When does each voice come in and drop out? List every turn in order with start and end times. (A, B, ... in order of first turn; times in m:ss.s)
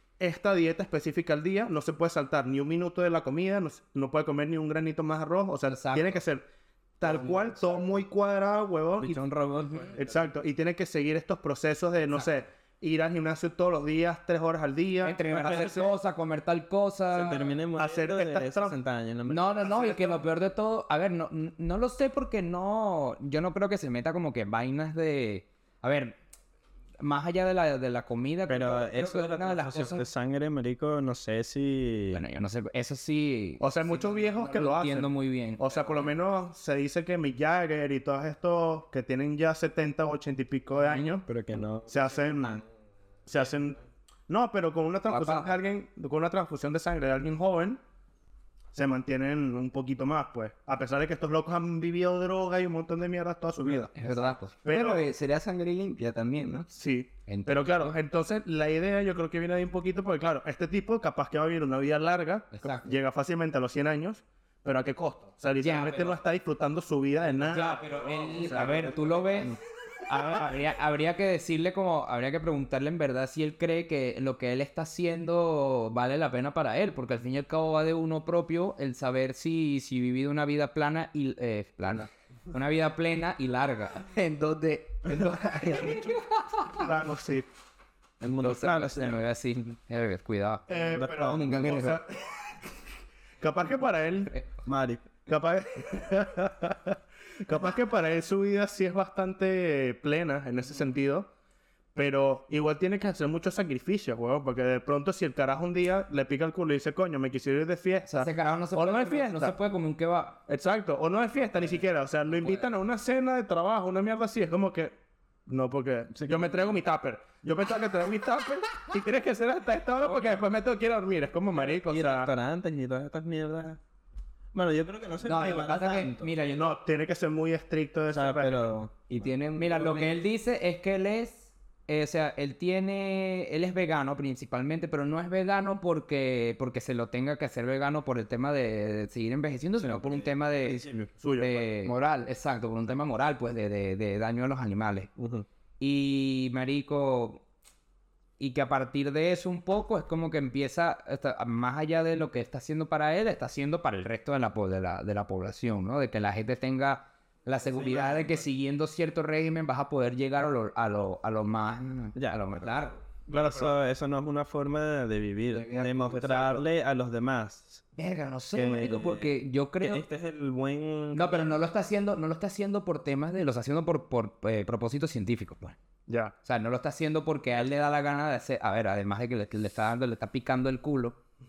0:00.2-0:06.4 A
0:05.7-0:06.2 B
0:07.0-0:09.2 A
0:07.0-0:07.8 C
0:09.0-0:10.2 C
0:09.9-0:15.7 A
0:15.0-0:17.5 B
0:15.5-0:15.8 C
0:17.1-0:19.8 C
0:17.8-0:18.7 A
0:19.3-0:26.2 B
0:27.0-0:30.0 B
0:28.5-0:32.2 C
0:32.1-0:35.6 B
0:33.6-0:41.2 A
0:41.2-0:42.6 C
0:41.9-0:42.6 A
0:43.3-0:47.8 A
0:45.1-0:45.5 B
0:48.7-0:53.9 A
0:53.9-0:56.7 D
0:54.0-0:54.5 B
0:54.6-0:55.0 A
0:56.7-1:07.8 A
0:57.3-0:57.9 B
1:02.5-1:02.9 B
1:05.6-1:06.2 B
1:07.5-1:09.6 B
1:08.4-1:08.8 A
1:10.1-1:24.0 B
1:24.0-1:26.1 D
1:26.7-1:27.5 A
1:28.2-1:29.2 C
1:28.4-1:30.6 B
1:30.7-1:32.6 A
1:30.8-1:31.4 C
1:31.2-1:32.0 D
1:33.4-1:34.4 A
1:34.6-1:35.0 C
1:35.2-1:41.3 A
1:41.9-1:49.5 A
1:48.1-1:50.4 B
1:50.5-1:54.9 A
1:55.5-2:02.3 A
1:56.1-1:56.5 C
2:01.6-2:03.8 C
2:04.5-2:06.3 C
2:05.2-2:06.6 B
2:06.5-2:08.8 A
2:08.1-2:09.2 C
2:09.1-2:10.1 D
2:09.5-2:25.1 B
2:19.8-2:21.1 C
2:21.2-2:21.7 A
2:25.2-2:25.4 C
2:25.8-2:27.4 B
2:28.4-2:43.0 B
2:37.7-2:38.3 C
2:42.2-2:42.7 C
2:43.3-2:47.8 C
2:43.3-2:43.7 A
2:45.5-2:46.6 D
2:48.0-2:50.0 B
2:48.5-2:49.3 C
2:49.8-2:51.5 C
2:51.1-2:55.8 B
2:56.1-2:56.3 A
2:56.4-3:01.2 B